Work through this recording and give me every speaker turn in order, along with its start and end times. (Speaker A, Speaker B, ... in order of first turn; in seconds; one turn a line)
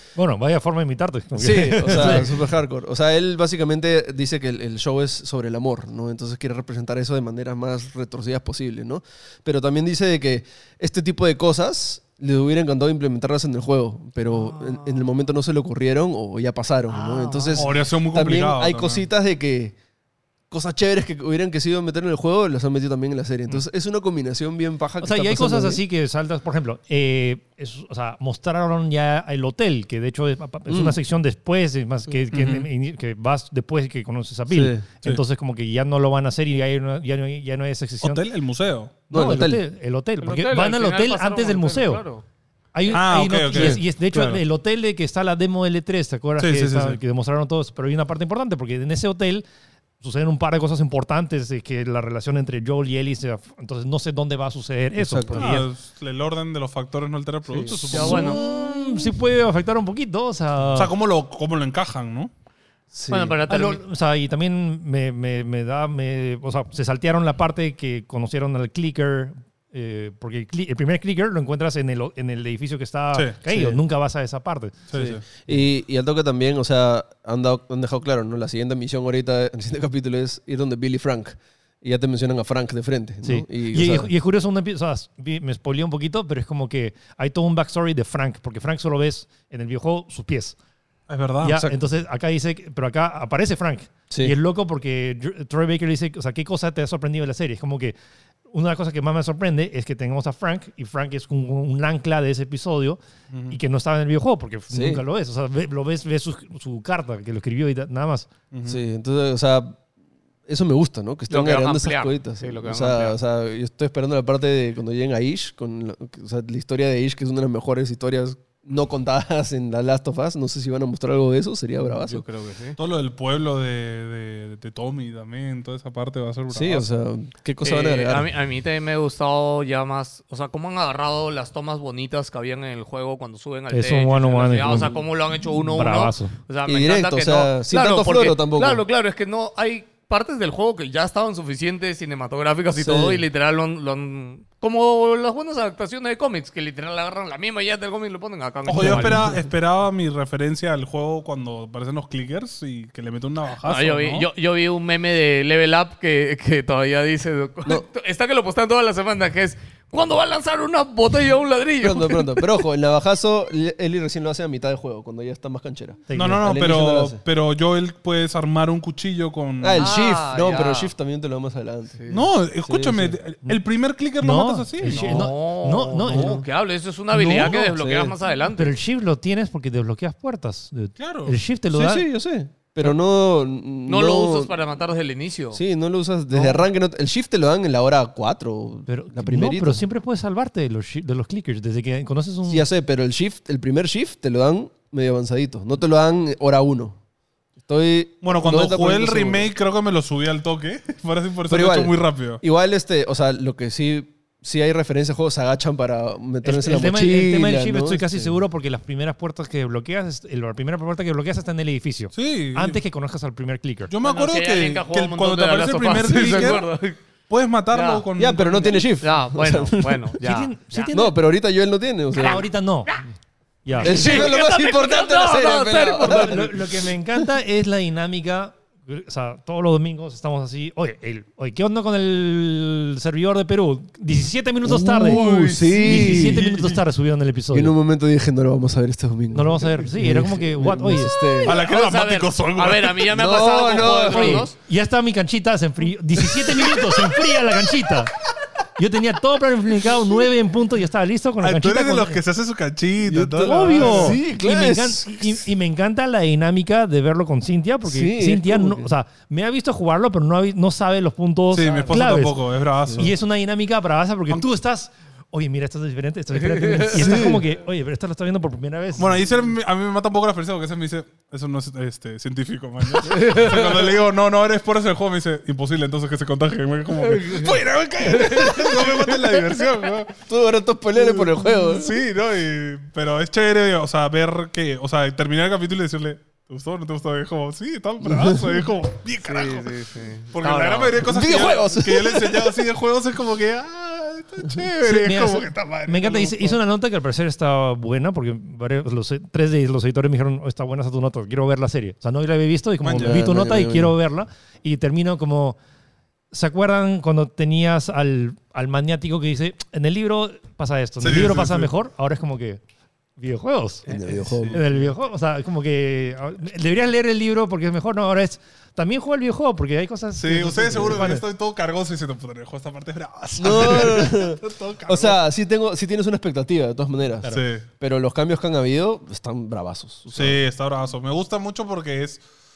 Speaker A: 0.2-2.4
Speaker B: 1.4-19.8
Speaker C: 14.3-15.1
Speaker C: 16.9-17.7
Speaker D: 17.6-19.1
Speaker B: 20.5-25.8
Speaker A: 25.0-38.2
Speaker B: 30.7-31.0
Speaker D: 32.3-32.7
Speaker B: 34.5-34.9
Speaker D: 38.0-39.0
Speaker B: 39.1-39.6
Speaker A: 39.1-42.0
Speaker C: 40.2-42.2
Speaker A: 42.7-49.5
Speaker D: 42.9-44.4
Speaker B: 43.5-43.8
Speaker D: 46.4-47.0
Speaker A: 50.0-55.7
Speaker B: 55.0-55.6
Speaker D: 55.3-58.4
Speaker B: 57.5-57.9
Speaker C: 57.6-58.4
Speaker A: 57.9-61.0
Speaker D: 60.8-62.3
Speaker B: 62.9-63.4
Speaker C: 63.1-63.8
Speaker A: 63.5-74.8
Speaker B: 73.5-73.8
Speaker D: 74.9-75.2
Speaker B: 74.9-84.1
Speaker A: 83.2-90.6
Speaker D: 91.1-91.7
Speaker A: 91.4-98.0
Speaker B: 94.1-94.3
Speaker A: 98.5-103.0
Speaker D: 103.3-103.6
Speaker A: 103.5-108.3
Speaker B: 104.7-105.0
Speaker D: 108.5-108.8
Speaker B: 108.7-109.8
Speaker B: 110.5-122.2
Speaker C: 111.3-113.2
Speaker C: 121.9-122.8
Speaker D: 122.8-126.9
Speaker B: 126.5-128.3
Speaker C: 127.6-149.2
Speaker A: 133.7-136.3
Speaker B: 136.7-138.8
Speaker B: 142.7-143.2
Speaker D: 148.7-154.3
Speaker B: 148.8-149.4
Speaker C: 153.6-162.5
Speaker B: 161.8-167.2
Speaker A: 166.1-166.5
Speaker D: 166.1-169.9
Speaker B: 169.6-172.0
Speaker C: 169.8-170.9
Speaker C: 172.0-172.3
Speaker D: 172.1-175.2
Speaker B: 172.6-173.2
Speaker A: 174.2-176.4
Speaker C: 174.9-178.8
Speaker A: 177.1-177.8
Speaker B: 177.3-178.1
Speaker A: 178.5-182.1
Speaker D: 181.0-181.4
Speaker B: 181.7-184.5
Speaker C: 183.9-185.6
Speaker B: 185.5-189.8
Speaker A: 186.3-186.6
Speaker A: 188.9-192.7
Speaker B: 192.5-197.0
Speaker B: 197.7-199.5
Speaker D: 198.2-202.4
Speaker B: 201.5-208.4
Speaker A: 206.4-213.9
Speaker D: 212.1-212.8
Speaker D: 213.9-216.7
Speaker C: 214.0-217.0
Speaker D: 217.3-218.8
Speaker C: 217.7-218.1
Speaker B: 218.2-220.1
Speaker C: 218.8-220.9
Speaker A: 220.2-221.2
Speaker B: 220.9-222.4
Speaker A: 222.2-223.0
Speaker A: 223.7-224.3
Speaker C: 223.8-226.5
Speaker B: 223.8-227.3
Speaker A: 226.0-237.7
Speaker B: 234.6-236.8
Speaker B: 237.5-241.6
Speaker A: 239.3-241.1
Speaker C: 241.4-244.6
Speaker D: 241.4-243.1
Speaker B: 243.1-244.5
Speaker A: 244.1-248.1
Speaker D: 246.6-247.1
Speaker A: 248.8-252.2
Speaker D: 251.4-254.2
Speaker B: 253.0-255.4
Speaker A: 253.4-269.2
Speaker B: 257.9-258.9
Speaker D: 261.5-263.1
Speaker B: 262.9-263.1
Speaker C: 266.4-267.2
Speaker B: 266.9-267.4
Speaker D: 269.0-280.1
Speaker C: 273.0-273.9
Speaker B: 277.2-277.5
Speaker C: 278.0-279.7
Speaker B: 280.3-282.0
Speaker D: 281.0-289.7
Speaker C: 289.2-291.1
Speaker D: 290.3-296.6
Speaker B: 291.0-292.5
Speaker A: 294.8-305.6
Speaker D: 302.8-303.2
Speaker B: 303.0-303.9
Speaker A: 306.3-312.6
Speaker D: 311.0-311.7
Speaker A: 313.2-321.3
Speaker B: 313.9-314.6
Speaker D: 314.3-314.9
Speaker D: 320.2-325.2
Speaker B: 323.4-330.4
Speaker D: 327.2-327.7
Speaker D: 330.1-332.2